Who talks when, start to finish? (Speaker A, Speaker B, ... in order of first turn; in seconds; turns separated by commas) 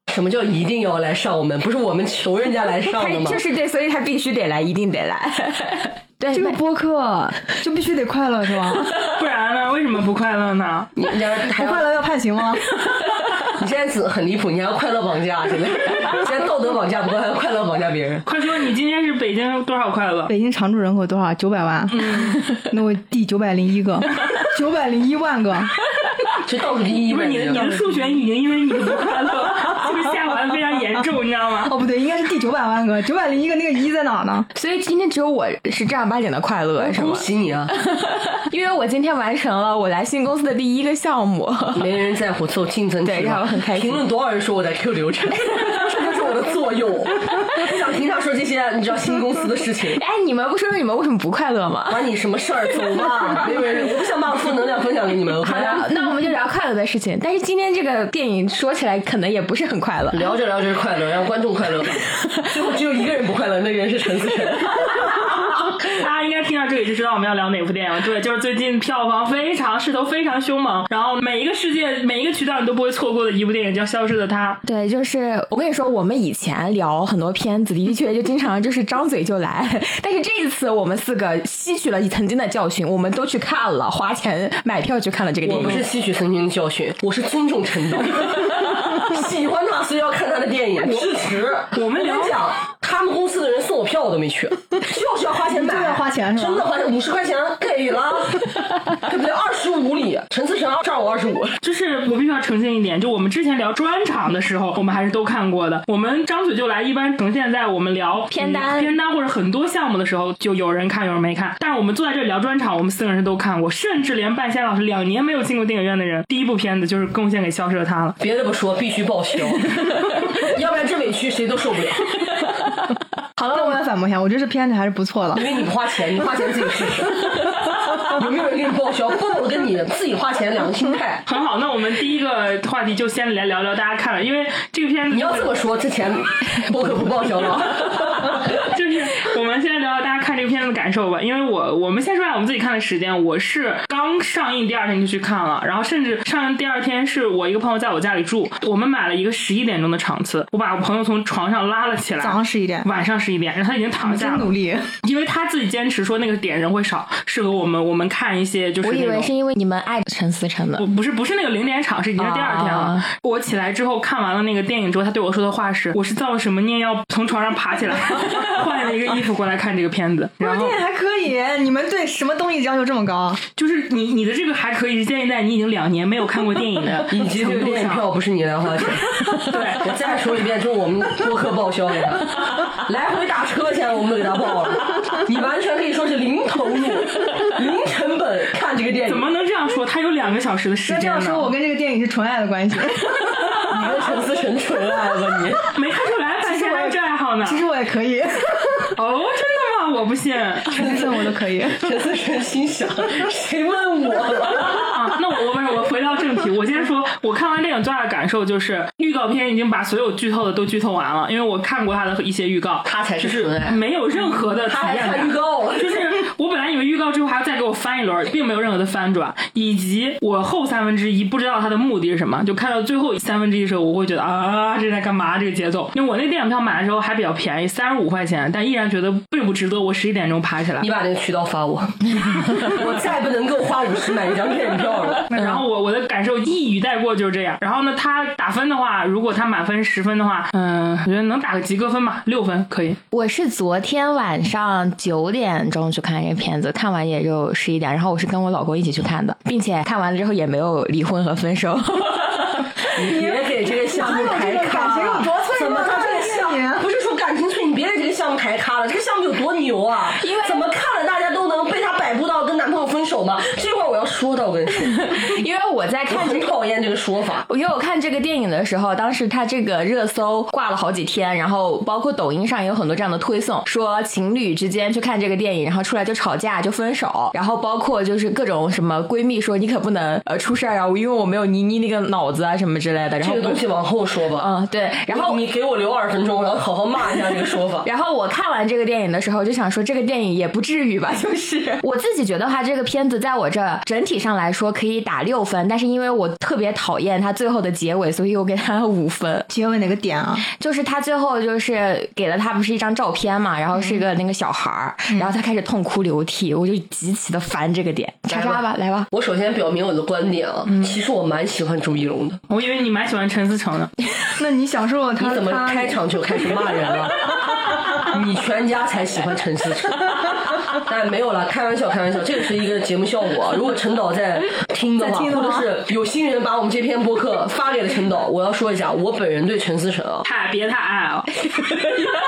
Speaker A: 0.1-3.4, Speaker B: 2.9-6.6, Speaker C: 6.3-8.9, Speaker D: 8.9-10.9, Speaker A: 10.9-11.9, Speaker C: 11.6-12.7, Speaker A: 13.4-18.2, Speaker D: 18.3-20.3, Speaker C: 20.3-25.7, Speaker D: 21.9-22.4, Speaker A: 26.4-27.6, Speaker D: 27.1-31.7, Speaker C: 31.7-34.5, Speaker B: 34.5-41.9, Speaker A: 36.8-37.7, Speaker A: 41.8-50.0, Speaker B: 43.0-44.1, Speaker B: 45.4-45.9, Speaker B: 50.0-52.0, Speaker A: 51.9-55.9, Speaker B: 55.4-60.3, Speaker A: 60.1-65.3, Speaker B: 62.1-62.4, Speaker D: 65.7-74.6, Speaker B: 74.6-85.8, Speaker A: 85.4-101.6, Speaker D: 91.7-92.4, Speaker C: 95.5-96.7, Speaker D: 101.6-118.2, Speaker B: 108.3-109.0, Speaker A: 118.2-122.4, Speaker C: 123.4-125.5, Speaker A: 125.3-131.2, Speaker D: 131.3-135.5, Speaker A: 135.1-138.5, Speaker D: 137.8-154.5, Speaker C: 152.2-152.9, Speaker C: 154.0-154.9, Speaker D: 155.0-159.3, Speaker B: 158.8-160.9, Speaker D: 160.8-170.8, Speaker B: 162.2-163.0, Speaker C: 170.4-173.4, Speaker D: 173.6-178.1, Speaker A: 177.1-189.3, Speaker D: 179.3-179.9, Speaker D: 189.1-191.5, Speaker C: 190.9-193.3, Speaker A: 193.7-195.6, Speaker D: 195.7-197.6, Speaker C: 196.4-198.9, Speaker D: 198.9-200.8, Speaker C: 200.7-201.8, Speaker A: 200.7-204.9, Speaker D: 204.6-230.9, Speaker A: 212.8-213.8, Speaker A: 214.7-216.1, Speaker A: 230.8-235.3, Speaker D: 235.3-243.0, Speaker B: 243.1-252.7, Speaker A: 252.9-265.1, Speaker C: 253.1-256.8, Speaker B: 260.2-260.6, Speaker B: 264.7-266.5, Speaker A: 266.1-267.5, Speaker B: 267.5-283.6, Speaker A: 283.2-284.5, Speaker B: 284.4-285.4, Speaker A: 285.1-287.9, Speaker B: 287.8-299.5, Speaker C: 299.5-300.5, Speaker B: 300.5-309.1, Speaker A: 308.3-312.4, Speaker D: 310.7-311.0, Speaker D: 312.5-313.9, Speaker C: 314.4-316.0, Speaker A: 315.2-330.2, Speaker C: 325.0-325.7, Speaker D: 330.2-331.6